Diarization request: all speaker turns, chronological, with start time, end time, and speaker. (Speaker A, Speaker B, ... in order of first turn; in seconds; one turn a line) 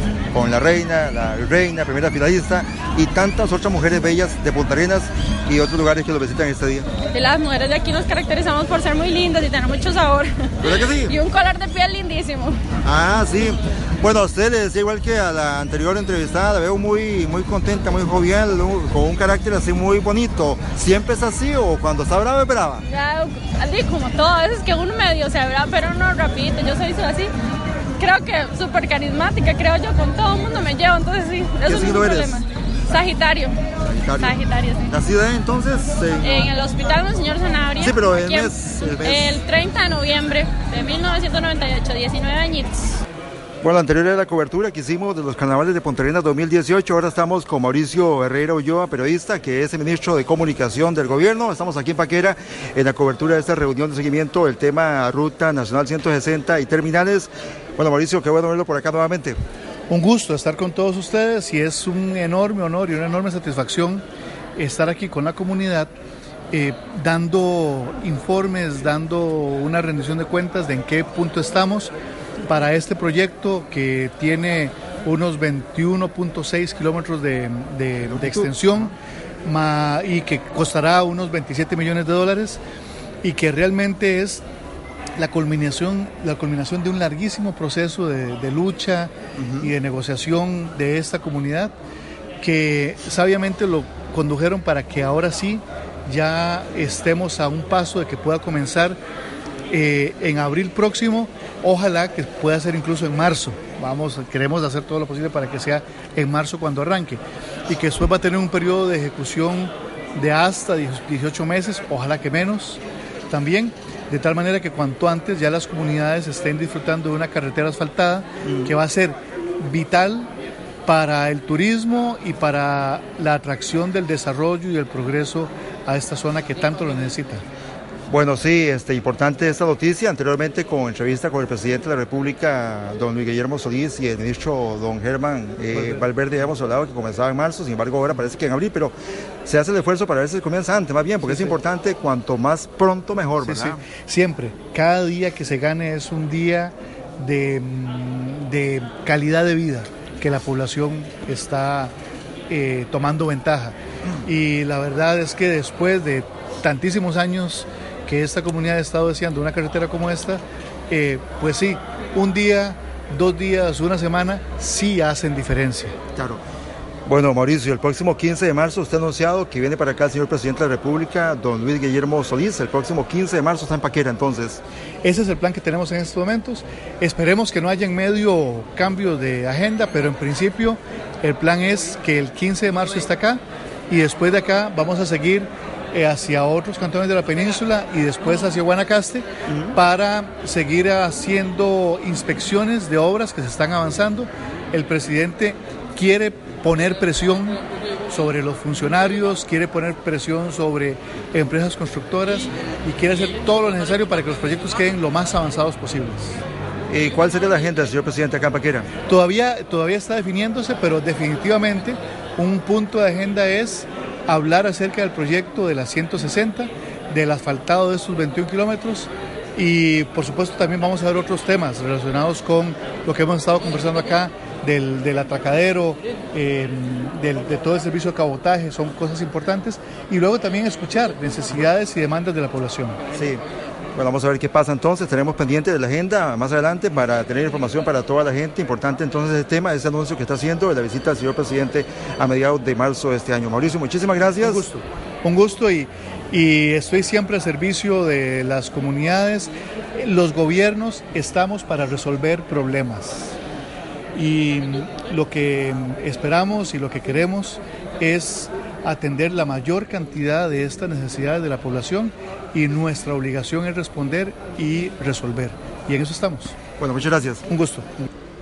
Speaker A: 0.3-6.9
Speaker B: 7.1-12.6
Speaker A: 10.6-11.1
Speaker A: 12.8-22.8
Speaker B: 22.8-27.3
Speaker B: 28.0-33.6
Speaker A: 31.6-32.3
Speaker A: 33.8-34.4
Speaker B: 34.2-35.0
Speaker A: 34.9-36.5
Speaker B: 36.2-43.0
Speaker A: 37.8-39.4
Speaker A: 43.6-59.4
Speaker C: 59.9-64.0
Speaker C: 64.6-65.9
Speaker C: 66.5-71.9
Speaker C: 72.5-78.9
Speaker A: 78.1-78.9
Speaker C: 79.4-82.6
Speaker C: 83.2-84.4
Speaker C: 85.2-91.7
Speaker A: 89.4-89.7
Speaker C: 92.4-99.0
Speaker C: 99.7-120.3
Speaker A: 118.4-118.8
Speaker C: 120.9-127.4
Speaker A: 128.1-143.8
Speaker C: 135.7-136.1
Speaker C: 141.2-141.6
Speaker C: 143.4-151.9
Speaker C: 152.5-165.9
Speaker A: 166.1-166.4
Speaker A: 167.1-174.6
Speaker C: 175.0-197.6
Speaker A: 189.5-189.7
Speaker C: 198.1-206.4
Speaker A: 206.9-208.9
Speaker C: 209.1-233.0
Speaker A: 233.1-233.4
Speaker A: 233.9-244.6
Speaker C: 244.4-253.3
Speaker C: 254.1-266.5
Speaker A: 266.8-267.4
Speaker C: 267.5-267.9